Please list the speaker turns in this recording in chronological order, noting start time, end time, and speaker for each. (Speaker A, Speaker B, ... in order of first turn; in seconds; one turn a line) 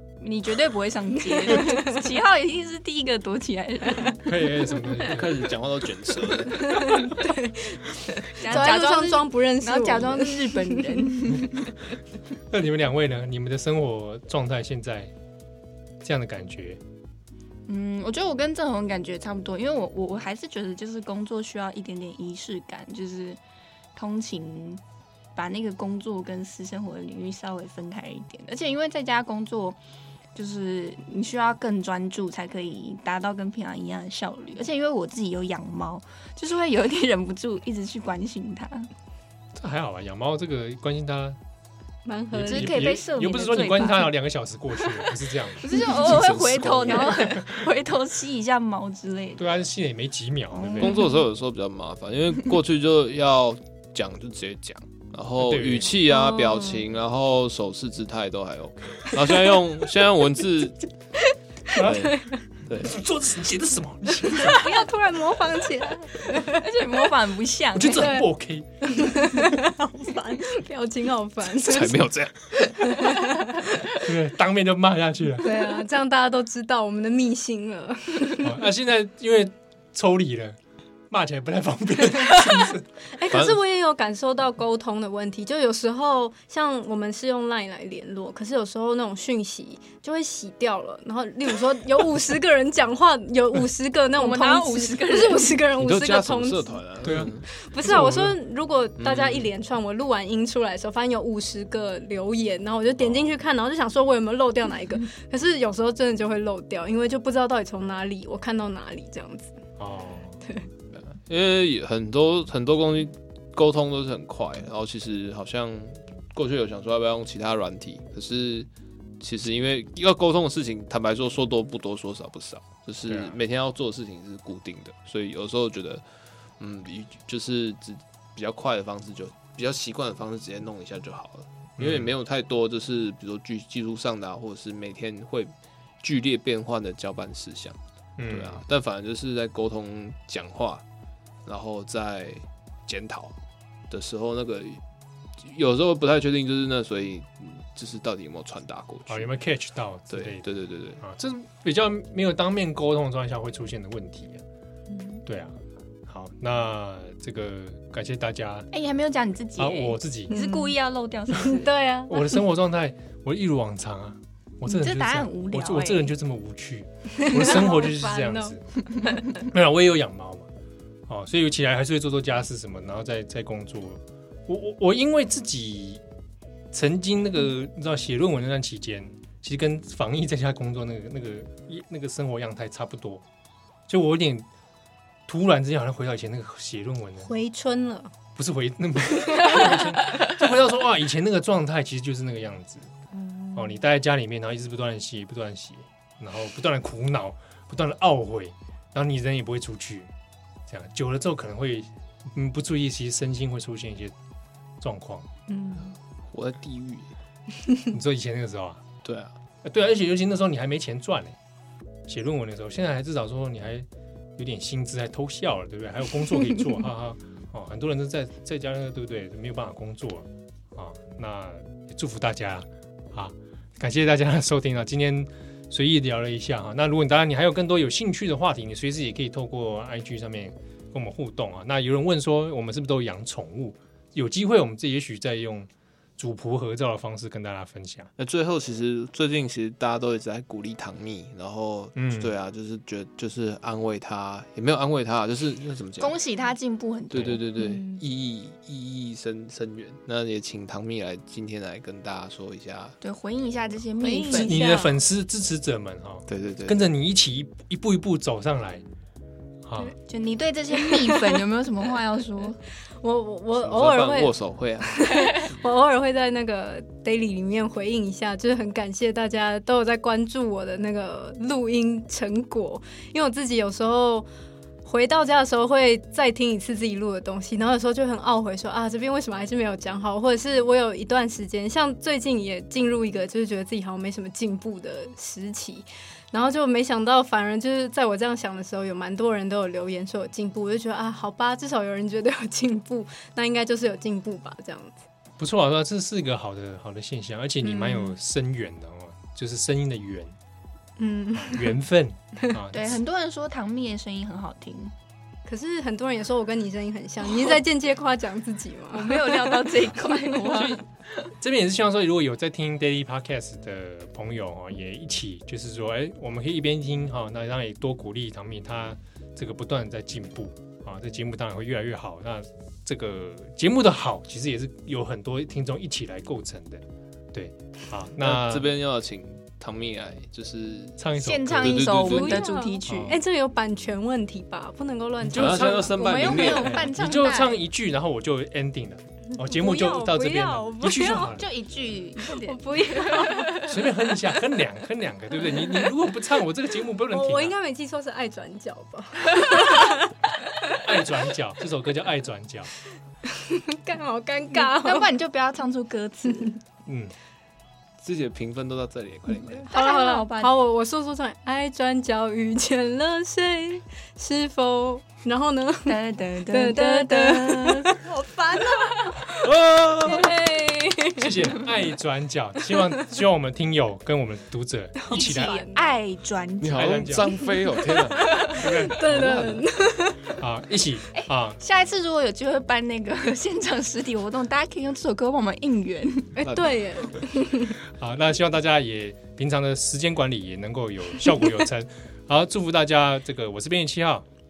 Speaker A: 0.2-4.2
Speaker B: 1.4-2.0
Speaker C: 4.2-5.4
Speaker D: 5.1-7.1
Speaker B: 6.4-11.3
Speaker A: 8.3-11.7
Speaker C: 12.5-15.1
Speaker C: 16.0-16.8
Speaker A: 17.7-23.4
Speaker A: 23.9-24.8
Speaker A: 25.4-29.8
Speaker A: 30.4-38.9
Speaker C: 39.6-41.4
Speaker B: 42.1-43.0
Speaker C: 42.3-45.7
Speaker A: 42.4-44.1
Speaker A: 45.6-49.4
Speaker D: 45.9-47.4
Speaker B: 46.9-47.4
Speaker C: 49.4-51.0
Speaker A: 50.5-51.1
Speaker D: 50.8-60.8
Speaker C: 55.4-55.9
Speaker B: 56.1-56.8
Speaker C: 61.7-62.1
Speaker B: 61.8-62.3
Speaker D: 61.8-63.0
Speaker C: 62.8-64.7
Speaker B: 64.4-66.7
Speaker A: 66.2-68.2
Speaker C: 67.8-69.4
Speaker B: 68.0-68.3
Speaker B: 68.8-73.7
Speaker D: 71.5-72.7
Speaker C: 74.0-75.6
Speaker B: 75.4-78.6
Speaker C: 78.4-80.6
Speaker C: 81.1-82.9
Speaker B: 83.1-96.8
Speaker D: 83.3-83.6
Speaker A: 94.2-95.7
Speaker D: 95.8-97.5
Speaker C: 97.0-98.4
Speaker B: 97.7-109.5
Speaker D: 99.0-99.5
Speaker C: 109.8-110.4
Speaker D: 110.9-118.7
Speaker D: 119.2-126.0
Speaker C: 123.1-123.3
Speaker D: 126.6-137.8
Speaker C: 131.8-132.1
Speaker C: 138.2-138.6
Speaker D: 138.3-140.8
Speaker D: 141.5-143.4
Speaker D: 143.9-144.8
Speaker D: 145.4-149.3
Speaker C: 149.1-150.5
Speaker D: 150.1-151.0
Speaker C: 151.0-154.4
Speaker B: 154.9-155.2
Speaker C: 155.2-155.6
Speaker C: 156.1-158.7
Speaker A: 158.7-161.7
Speaker C: 159.6-160.3
Speaker B: 160.3-160.7
Speaker B: 161.3-162.4
Speaker C: 162.1-168.6
Speaker A: 164.7-166.1
Speaker B: 167.2-168.6
Speaker C: 169.4-170.5
Speaker C: 171.1-176.0
Speaker C: 176.7-183.2
Speaker C: 183.9-184.5
Speaker C: 185.3-187.3
Speaker B: 187.2-188.1
Speaker C: 188.3-192.9
Speaker B: 193.1-193.7
Speaker C: 193.6-200.1
Speaker C: 200.7-204.1
Speaker C: 204.8-205.3
Speaker B: 205.5-205.9
Speaker D: 206.3-207.1
Speaker C: 207.9-208.8
Speaker D: 209.0-209.3
Speaker C: 209.6-211.4
Speaker C: 212.1-238.1
Speaker D: 238.2-246.2
Speaker C: 242.0-242.3
Speaker A: 246.0-247.4
Speaker D: 247.1-253.0
Speaker B: 247.6-248.0
Speaker A: 253.0-254.6
Speaker B: 254.0-255.0
Speaker C: 254.3-258.8
Speaker D: 256.3-256.8
Speaker C: 259.7-259.9
Speaker A: 260.1-262.6
Speaker B: 260.8-261.4
Speaker B: 263.0-274.3
Speaker D: 263.6-265.1
Speaker B: 274.8-295.0
Speaker C: 295.4-300.3
Speaker B: 297.6-298.2
Speaker B: 301.0-301.8
Speaker C: 301.3-303.0
Speaker A: 302.7-304.9
Speaker B: 305.5-310.4
Speaker A: 307.3-307.6
Speaker A: 308.9-310.8
Speaker C: 310.4-328.7
Speaker D: 328.2-331.0
Speaker C: 331.0-332.0
Speaker A: 331.2-333.2
Speaker D: 331.6-332.4
Speaker B: 332.1-336.8
Speaker C: 332.9-333.2
Speaker C: 335.2-341.5
Speaker D: 335.4-336.9
Speaker A: 336.0-337.6
Speaker B: 339.4-341.3
Speaker A: 340.9-343.8
Speaker B: 342.3-343.7
Speaker C: 343.6-347.5
Speaker B: 347.1-350.1
Speaker C: 350.8-352.7
Speaker B: 353.2-355.1
Speaker A: 354.5-356.6
Speaker C: 356.9-357.1
Speaker D: 358.0-359.7
Speaker B: 359.6-369.5
Speaker A: 359.7-360.5
Speaker A: 365.9-369.0
Speaker D: 369.4-370.4
Speaker B: 370.1-371.5
Speaker A: 370.1-370.7
Speaker C: 371.2-375.6
Speaker B: 375.0-376.0
Speaker A: 375.1-376.9
Speaker D: 376.6-379.7
Speaker C: 376.7-377.3
Speaker B: 378.2-380.3
Speaker C: 378.5-379.5
Speaker C: 380.4-381.6
Speaker A: 381.1-386.4
Speaker B: 386.4-387.8
Speaker D: 386.4-386.8
Speaker C: 388.0-394.2